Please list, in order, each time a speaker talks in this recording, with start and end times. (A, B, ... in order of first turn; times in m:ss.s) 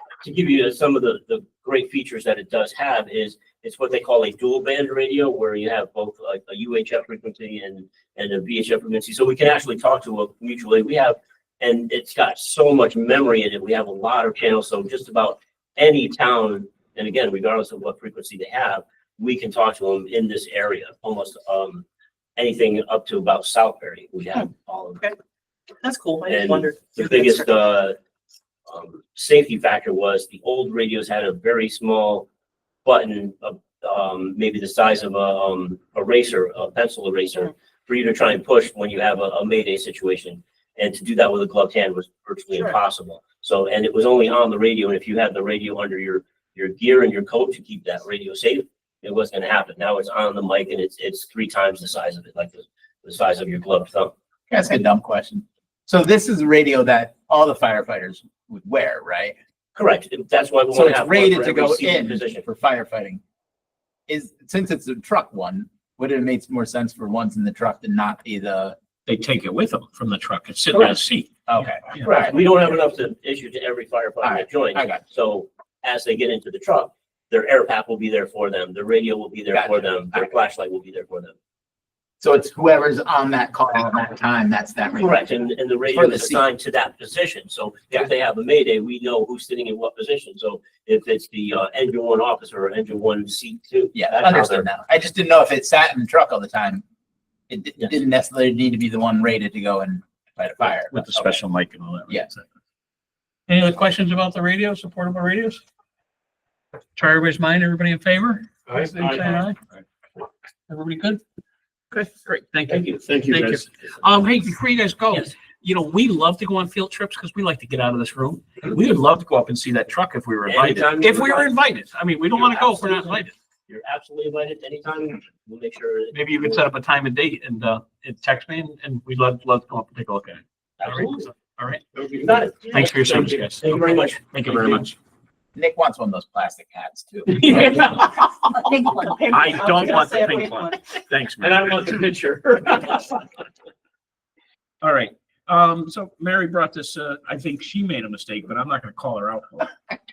0:00.2-0:21.9 A
0:22.4-0:25.1 A
0:25.8-0:27.5 B
0:26.3-0:28.0 A
0:28.7-0:32.3 A
0:32.8-0:54.1 A
0:54.5-0:59.4 C
0:59.8-1:02.4 A
1:00.7-1:03.2 C
1:04.1-1:08.8 C
1:09.1-1:11.3 D
1:11.5-1:12.7 C
1:12.0-1:21.4 A
1:14.2-1:15.0 C
1:19.5-1:20.3 C
1:22.2-1:25.2 C
1:25.0-1:34.7 A
1:25.9-1:26.4 C
1:34.0-1:36.8 C
1:37.5-1:41.4 C
1:40.9-1:42.4 D
1:43.5-1:45.6 D
1:47.0-1:49.6 D
1:50.7-1:51.2 D
1:51.9-2:03.3 D
1:52.7-1:53.3 A
2:00.5-2:01.5 A
2:02.3-2:06.7 A
2:06.1-2:11.8 D
2:10.8-2:11.3 A
2:12.0-2:14.9 A
2:12.7-2:15.0 D
2:15.6-2:18.0 C
2:17.3-2:18.5 D
2:18.6-2:20.9 B
2:19.3-2:23.2 D
2:24.8-2:29.7 D